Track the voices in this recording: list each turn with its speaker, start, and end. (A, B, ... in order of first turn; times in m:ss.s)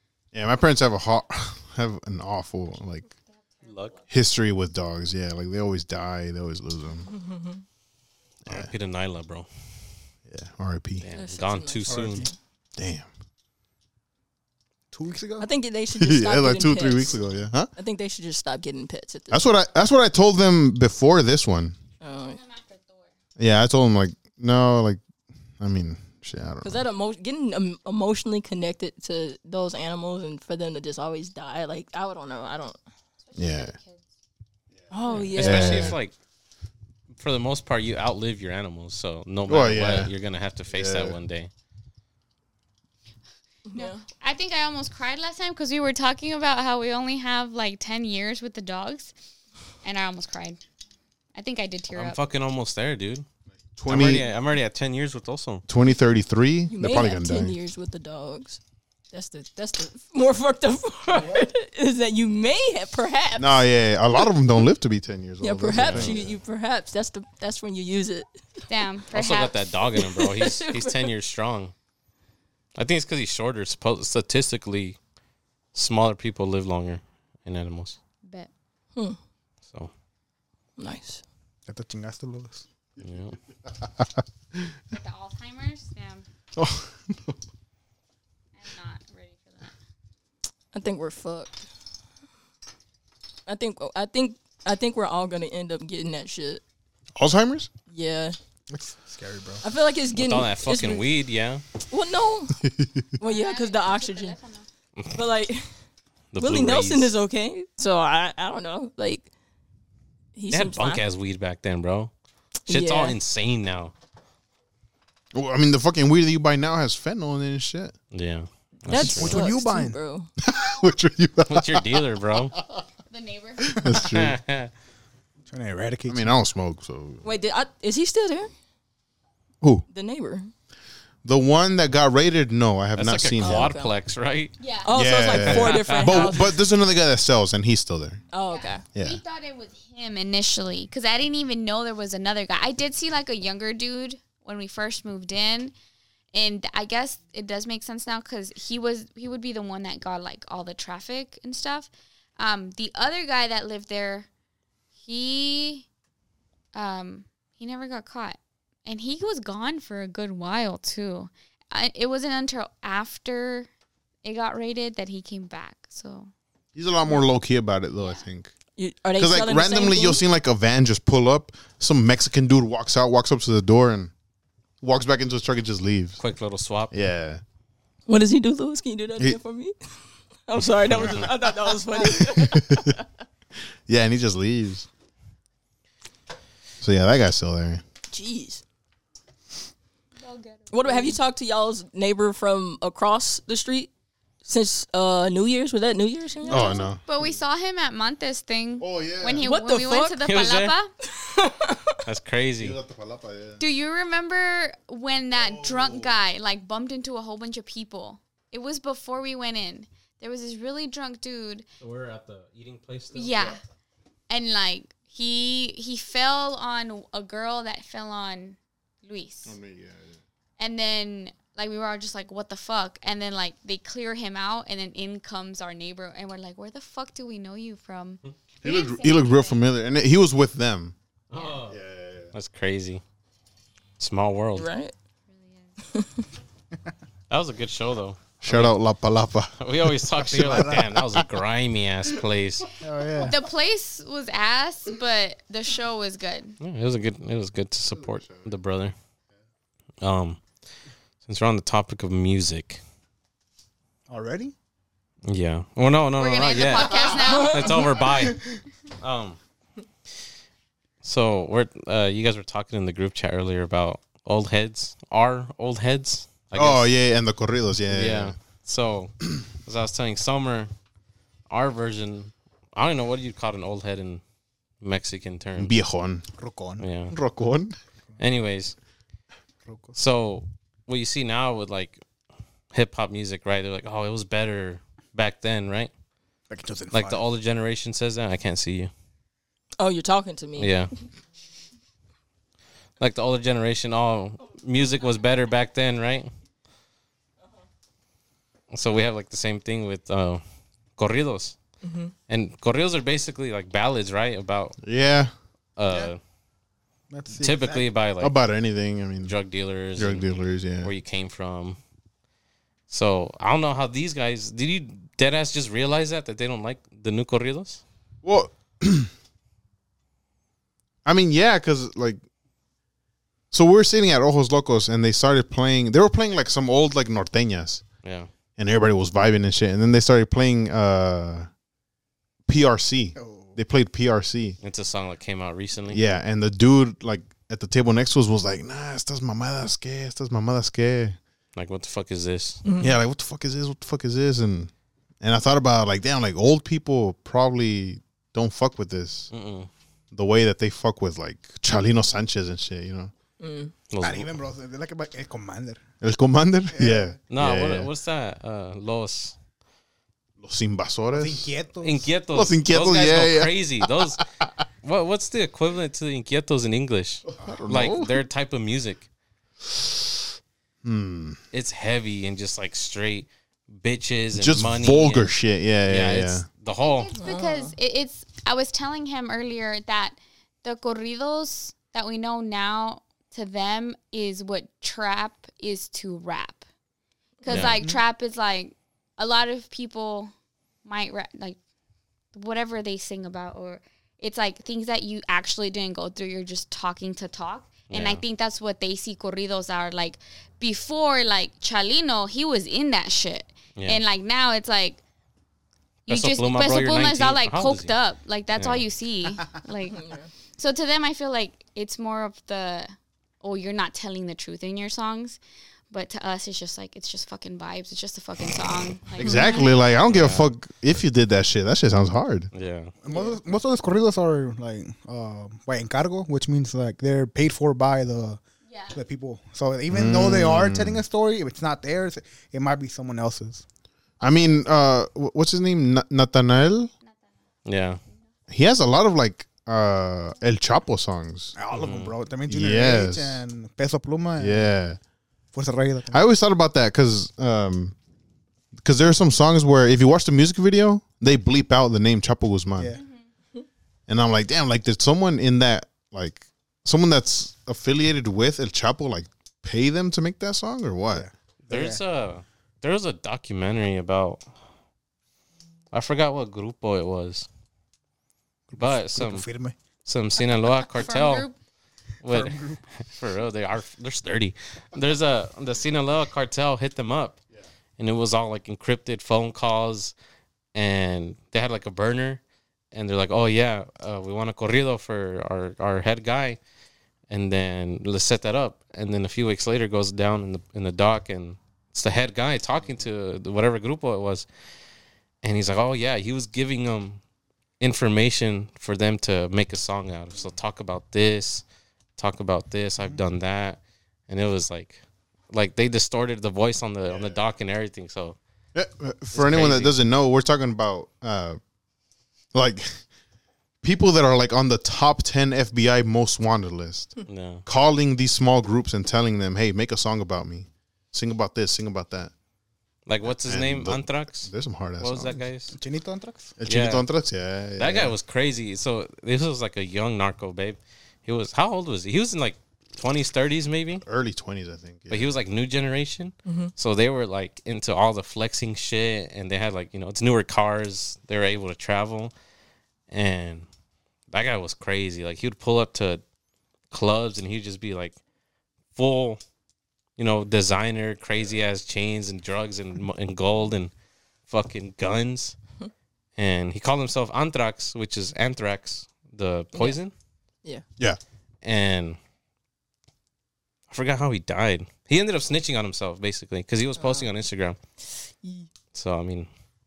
0:00.3-0:03.1 A
0:03.3-0:04.0 B
0:03.6-0:04.0 C
0:04.1-0:07.1 A
0:07.1-0:07.6 D
0:08.5-0:08.7 A
0:08.5-0:09.5 C
0:10.3-0:11.0 A
0:11.0-0:12.3 C
0:11.1-0:12.3 D
0:11.9-0:12.3 E
0:12.8-0:13.1 A
0:14.9-0:15.5 E
0:15.4-0:17.2 D
0:16.0-0:17.7 A
0:17.8-0:19.4 D
0:19.3-0:21.8 A
0:22.0-0:22.4 D
0:22.2-0:23.1 B
0:23.4-0:25.0 A
0:25.6-0:26.8 A
0:26.6-0:32.8 D
0:33.2-0:34.0 B
0:33.4-0:33.8 A
0:34.8-0:36.0 A
0:34.9-0:35.9 D
0:35.3-0:36.1 C
0:37.1-0:41.5 C
0:39.5-0:40.1 A
0:40.7-0:41.2 A
0:43.7-0:44.0 D
0:43.8-0:49.1 B
0:49.8-0:50.6 B
0:51.4-0:52.2 B
0:51.9-0:53.3 C
0:53.8-0:54.3 A
0:53.9-0:55.6 C
0:55.7-0:57.6 A
0:56.7-0:58.6 D
0:59.1-1:03.6 D
1:03.4-1:06.4 A
1:05.4-1:08.3 D
1:05.8-1:06.2 C
1:08.7-1:09.6 B
1:09.1-1:11.7 C
1:10.2-1:11.0 D
1:12.8-1:15.0 C
1:15.7-1:18.0 C
1:18.2-1:18.5 B
1:20.8-1:21.2 D
1:21.7-1:22.6 E
1:23.0-1:23.4 C
1:23.9-1:24.7 A
1:24.9-1:26.2 B
1:26.6-1:27.4 A
1:28.6-1:29.7 B
1:30.7-1:31.7 D
1:33.5-1:36.6 D
1:37.2-1:37.7 A
1:37.9-1:38.4 D
1:38.7-1:39.6 E
1:39.6-1:41.0 D
1:40.1-1:41.6 C
1:41.9-1:42.6 D
1:43.2-1:44.4 D
1:43.2-1:44.7 B
1:45.1-1:45.7 D
1:46.3-1:47.1 C
1:46.4-1:49.3 D
1:50.4-1:51.0 D
1:50.5-1:52.1 C
1:52.7-1:53.9 C
1:52.7-1:53.2 D
1:55.3-1:58.0 A
1:58.1-1:59.4 C
1:58.9-2:00.3 D
1:59.0-1:59.3 A
1:59.0-2:00.0 E
2:00.4-2:02.8 A
2:01.5-2:02.6 C
2:03.1-2:03.8 B
2:03.6-2:04.4 A
2:03.9-2:04.7 C
2:05.5-2:06.4 E
2:06.1-2:07.2 A
2:07.2-2:08.5 D
2:09.9-2:10.5 D
2:11.2-2:13.7 A
2:13.0-2:14.5 C
2:13.4-2:13.9 D
2:14.6-2:14.9 B
2:14.8-2:16.6 D
2:14.9-2:18.2 A
2:15.3-2:16.4 C
2:18.3-2:18.8 D
2:18.4-2:25.7 B
2:19.0-2:19.2 A
2:26.3-2:34.3 B
2:35.0-2:35.9 B
2:36.7-2:43.7 B
2:44.2-2:46.3 B
2:46.8-2:48.5 A
2:48.8-2:50.2 D
2:49.2-2:54.1 A
2:54.8-2:56.2 A
2:56.2-2:56.9 C
2:56.9-2:57.4 A
2:58.1-2:59.8 D
3:00.5-3:03.0 D
3:01.0-3:01.3 C
3:02.3-3:03.0 A
3:03.9-3:04.9 A
3:06.8-3:07.8 A
3:08.1-3:08.6 D
3:10.2-3:11.2 B
3:10.7-3:13.9 D
3:14.4-3:16.8 D
3:16.5-3:20.9 B
3:16.5-3:17.0 A
3:18.8-3:19.4 A
3:19.4-3:20.2 D
3:20.2-3:20.8 C
3:21.1-3:22.0 D
3:22.0-3:22.8 C
3:22.6-3:23.6 A
3:23.6-3:31.6 B
3:25.3-3:26.2 A
3:31.8-3:33.6 C
3:33.1-3:33.6 B
3:34.3-3:39.6 B
3:39.4-3:40.2 A
3:40.6-3:49.6 B
3:48.6-3:51.0 A
3:51.3-3:51.8 C
3:51.7-3:52.3 A
3:52.3-3:53.0 C
3:54.0-3:54.7 C
3:54.6-3:54.9 D
3:55.3-3:55.7 B
3:55.9-3:56.2 D
3:57.3-3:58.8 C
3:58.4-3:59.6 A
3:59.6-4:02.7 C
4:00.2-4:01.0 E
4:02.8-4:03.4 E
4:03.2-4:06.6 B
4:06.6-4:08.9 C
4:07.9-4:08.5 A
4:10.0-4:10.4 C
4:11.2-4:12.8 C
4:14.1-4:14.5 E
4:15.3-4:18.4 C
4:16.2-4:17.7 B
4:17.3-4:17.8 D
4:19.0-4:19.4 C
4:21.0-4:26.9 C
4:26.5-4:28.4 A
4:27.9-4:30.7 C
4:31.5-4:34.2 C
4:34.8-4:35.7 C
4:35.6-4:36.3 A
4:36.4-4:36.8 E
4:36.8-4:37.1 C
4:37.1-4:37.8 A
4:38.2-4:38.8 C
4:39.7-4:40.0 E
4:40.0-4:42.0 C
4:42.7-4:45.9 C
4:46.5-4:47.2 E
4:46.9-4:48.9 C
4:49.8-4:50.8 D
4:50.6-4:50.9 C
4:53.0-4:56.3 C
4:58.7-5:00.4 C
5:01.0-5:01.6 C
5:01.8-5:02.1 D
5:02.3-5:04.8 C
5:04.8-5:05.3 A
5:05.8-5:06.2 C
5:07.1-5:07.9 E
5:07.4-5:08.4 C
5:08.2-5:09.4 A
5:09.2-5:11.8 C
5:10.0-5:10.9 A
5:12.9-5:17.8 C
5:18.2-5:19.1 A
5:21.0-5:22.2 A
5:23.5-5:27.8 A
5:28.0-5:28.3 C
5:28.6-5:31.5 A
5:32.5-5:34.6 A
5:33.2-5:33.6 E
5:34.6-5:36.0 C
5:35.9-5:41.2 A
5:41.6-5:42.6 C
5:42.6-5:43.0 D
5:42.8-5:44.7 A
5:45.2-5:49.3 A
5:49.3-5:49.7 C
5:50.1-5:53.1 A
5:53.4-5:53.7 D
5:53.9-5:54.3 C
5:54.0-5:55.8 E
5:56.0-5:57.9 A
5:56.7-5:57.2 E
5:57.3-5:59.4 C
6:00.4-6:01.5 A
6:01.1-6:02.1 E
6:01.8-6:04.2 C
6:02.3-6:04.2 A
6:04.8-6:09.1 C
6:07.3-6:08.2 A
6:10.8-6:11.4 A
6:11.5-6:15.3 C
6:14.4-6:16.5 A
6:15.9-6:17.1 C
6:16.8-6:26.6 B
6:17.2-6:17.8 D
6:27.4-6:27.8 D
6:27.4-6:30.3 B
6:27.5-6:27.8 C
6:30.8-6:31.6 B
6:32.3-6:45.0 B
6:37.9-6:38.2 C
6:43.8-6:44.0 C
6:46.1-6:50.0 B
6:46.1-6:47.9 C
6:48.6-6:48.8 C
6:49.9-6:50.3 D
6:50.6-6:55.4 B
6:55.9-6:59.7 B
6:59.2-7:02.5 A
6:59.2-6:59.6 D
7:00.1-7:00.5 C
7:02.5-7:02.9 C
7:03.0-7:08.4 E
7:08.7-7:09.0 B
7:08.9-7:13.6 E
7:09.9-7:11.0 A
7:14.2-7:16.9 A
7:17.0-7:17.3 B
7:17.7-7:18.0 C
7:18.5-7:21.6 A
7:21.6-7:24.8 E
7:21.7-7:22.2 C
7:22.5-7:23.4 A
7:24.4-7:25.0 A
7:25.5-7:26.3 E
7:26.1-7:28.0 A
7:28.8-7:32.9 A
7:33.0-7:33.2 B
7:34.1-7:41.3 A
7:41.1-7:42.0 E
7:41.7-7:44.5 C
7:45.9-7:47.5 C
7:48.7-7:49.8 E
7:48.8-7:49.5 C
7:50.1-7:51.5 C
7:51.0-7:51.6 B
7:52.2-7:57.4 C
7:52.3-7:52.8 E
7:58.0-8:00.1 C
8:00.8-8:02.4 C
8:02.9-8:06.6 C
8:07.3-8:14.5 C
8:15.4-8:17.2 C
8:17.8-8:21.6 C
8:22.2-8:28.4 C
8:27.1-8:27.4 A
8:28.7-8:31.6 A
8:29.3-8:30.0 C
8:32.5-8:33.0 A
8:33.8-8:37.1 A
8:37.3-8:37.6 C
8:37.7-8:42.3 A
8:43.1-8:45.7 C
8:43.4-8:45.4 A
8:45.7-8:46.6 E
8:46.6-8:48.2 A
8:46.7-8:47.1 C
8:47.8-8:54.0 C
8:54.0-8:55.3 A
8:55.1-9:02.3 C
8:56.5-8:56.7 D
9:03.1-9:03.7 C
9:04.3-9:06.2 C
9:06.9-9:08.2 C
9:08.9-9:09.4 C
9:10.2-9:13.9 C
9:14.5-9:15.6 C
9:16.4-9:20.1 C
9:19.7-9:20.0 D
9:21.6-9:22.2 C
9:23.9-9:27.8 C
9:28.4-9:28.7 D
9:28.9-9:29.5 C